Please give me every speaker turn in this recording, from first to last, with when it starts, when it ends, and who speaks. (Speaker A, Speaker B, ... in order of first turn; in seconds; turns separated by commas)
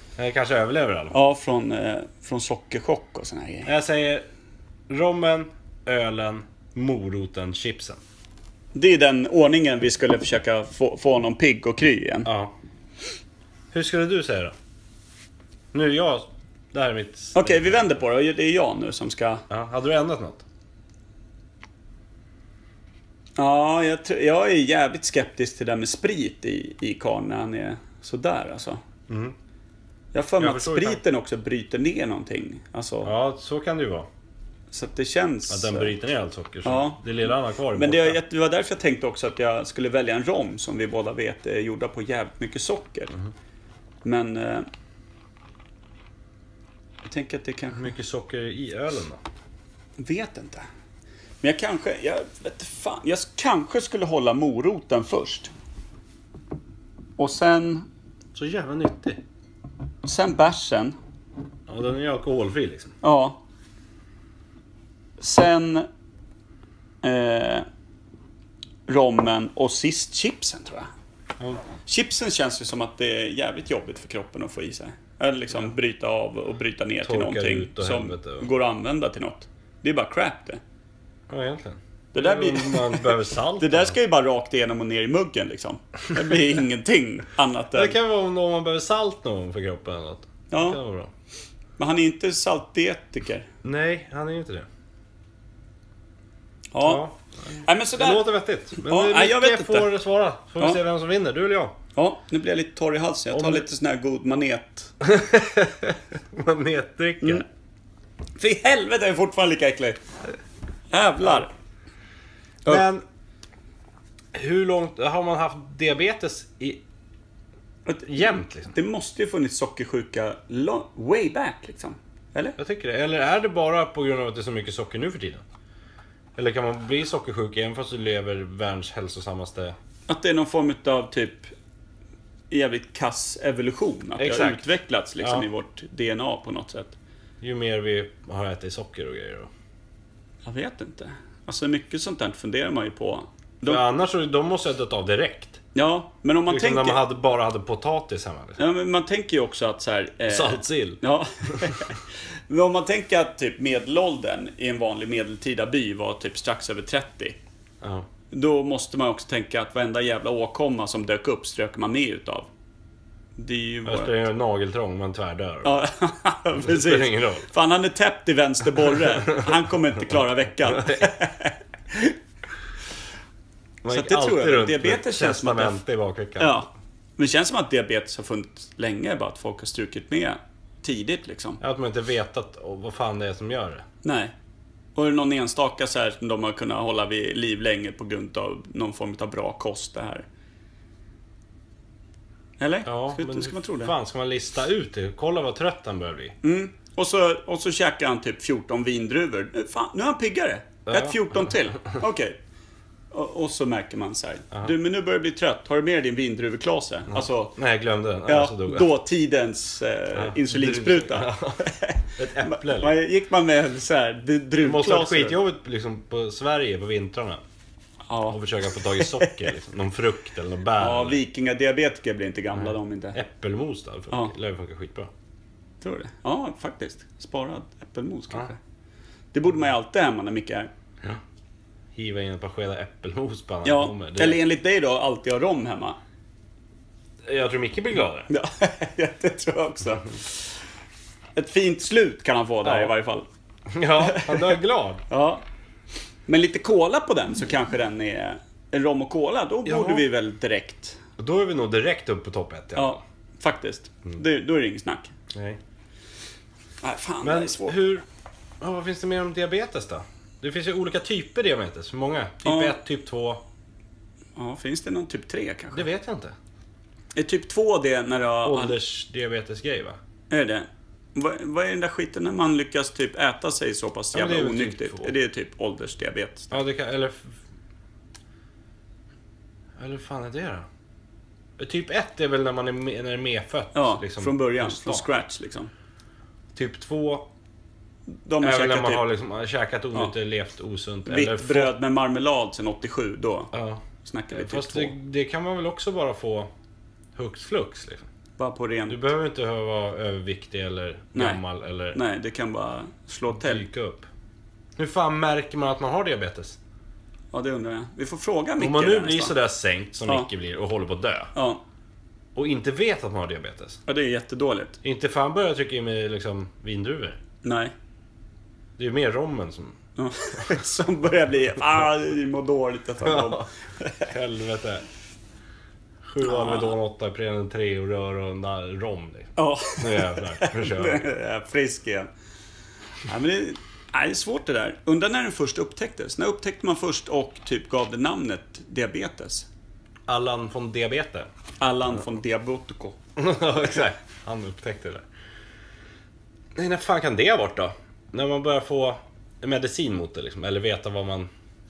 Speaker A: 0.2-1.2, Speaker B: 1.1-3.7, Speaker A: 3.6-4.2, Speaker A: 4.9-8.0, Speaker B: 8.7-12.3, Speaker A: 12.2-12.5, Speaker A: 13.7-14.5, Speaker A: 15.7-17.9, Speaker B: 17.3-19.4, Speaker A: 19.5-20.4, Speaker B: 23.4-28.8, Speaker A: 29.1-29.3, Speaker B: 30.1-33.1, Speaker A: 30.4-31.0, Speaker A: 33.0-34.1, Speaker B: 34.7-35.9, Speaker A: 35.5-38.2, Speaker B: 36.6-43.1, Speaker B: 44.0-44.7, Speaker B: 47.0-47.9, Speaker A: 47.7-49.2, Speaker B: 50.0-50.6, Speaker B: 51.4-55.5, Speaker B: 57.2-57.9, Speaker A: 58.3-59.2, Speaker B: 60.0-61.0, Speaker A: 61.7-62.9, Speaker B: 63.0-63.4, Speaker B: 65.2-65.9, Speaker B: 67.0-67.7, Speaker B: 68.9-70.9, Speaker A: 71.4-71.6, Speaker B: 71.9-80.6, Speaker A: 77.0-78.5, Speaker A: 81.3-84.0, Speaker B: 82.1-88.0, Speaker A: 87.7-91.1, Speaker B: 90.5-90.8, Speaker B: 91.8-93.5, Speaker A: 93.6-94.7, Speaker B: 96.7-97.0, Speaker A: 96.8-101.8, Speaker B: 97.6-99.9, Speaker B: 102.0-104.9, Speaker A: 103.3-103.6, Speaker A: 105.0-107.4, Speaker B: 108.4-110.0, Speaker B: 110.9-111.5, Speaker A: 112.7-113.0, Speaker A: 114.3-116.8, Speaker B: 117.9-122.6, Speaker A: 118.0-118.8, Speaker A: 122.6-125.4, Speaker A: 126.3-129.8, Speaker B: 130.1-131.5, Speaker B: 132.5-136.9, Speaker A: 134.2-135.4, Speaker A: 137.4-139.5, Speaker B: 140.4-143.8, Speaker A: 143.7-145.6, Speaker B: 145.7-147.0, Speaker A: 146.5-148.6, Speaker B: 148.6-157.4, Speaker A: 150.3-151.0, Speaker A: 157.8-158.1, Speaker B: 158.3-162.5, Speaker B: 163.4-164.2, Speaker A: 163.8-165.8, Speaker B: 165.6-171.5, Speaker A: 166.6-167.5, Speaker A: 170.7-171.1, Speaker A: 173.8-176.6, Speaker B: 173.9-175.8, Speaker B: 176.4-181.6, Speaker A: 181.6-183.8, Speaker B: 184.0-184.3, Speaker B: 184.9-190.2, Speaker B: 192.6-193.9, Speaker A: 192.8-196.3, Speaker B: 196.4-202.3, Speaker A: 200.9-202.0, Speaker B: 203.1-207.6, Speaker A: 207.1-208.8, Speaker B: 208.3-215.4, Speaker A: 210.1-212.9, Speaker A: 214.6-217.4, Speaker B: 218.1-219.4, Speaker A: 218.3-221.2, Speaker B: 220.8-223.2, Speaker A: 222.5-225.1, Speaker B: 225.8-228.6, Speaker B: 229.3-230.7, Speaker A: 231.9-234.4, Speaker B: 233.6-236.0, Speaker A: 237.2-238.3, Speaker B: 238.3-240.5, Speaker B: 241.3-243.2, Speaker A: 242.6-242.9, Speaker A: 243.7-245.0, Speaker B: 244.0-244.6, Speaker B: 245.1-245.4, Speaker B: 246.3-251.0, Speaker A: 249.6-250.0, Speaker A: 251.2-253.0, Speaker B: 252.8-255.1, Speaker A: 255.3-255.6, Speaker B: 256.8-257.8, Speaker A: 257.2-258.0, Speaker A: 258.6-263.4, Speaker B: 262.4-262.8, Speaker B: 264.4-265.9, Speaker A: 265.7-266.4, Speaker B: 267.1-268.8, Speaker A: 268.4-270.0, Speaker B: 270.3-276.6, Speaker A: 274.1-275.1, Speaker A: 276.5-277.4, Speaker A: 279.8-280.7, Speaker A: 281.6-285.1, Speaker B: 283.7-285.7, Speaker A: 286.5-287.3, Speaker B: 288.2-289.1, Speaker A: 288.4-291.7, Speaker B: 291.1-294.9, Speaker A: 293.5-296.5, Speaker A: 297.1-298.1, Speaker B: 298.4-299.0, Speaker A: 298.9-302.0, Speaker B: 301.1-301.4, Speaker B: 301.9-303.6, Speaker A: 303.3-304.1, Speaker A: 304.8-306.6, Speaker B: 307.3-309.3, Speaker A: 308.6-311.3, Speaker B: 311.3-311.6, Speaker A: 312.3-313.8, Speaker B: 313.9-314.8, Speaker A: 314.8-317.2, Speaker B: 317.4-317.7, Speaker A: 318.8-319.8, Speaker B: 320.0-324.1, Speaker A: 323.0-323.5, Speaker A: 324.0-324.8, Speaker A: 326.0-331.1, Speaker B: 326.2-326.8, Speaker B: 329.4-332.1, Speaker B: 333.1-339.5, Speaker A: 340.1-341.3, Speaker B: 341.6-343.0, Speaker A: 343.2-345.0, Speaker A: 346.5-351.3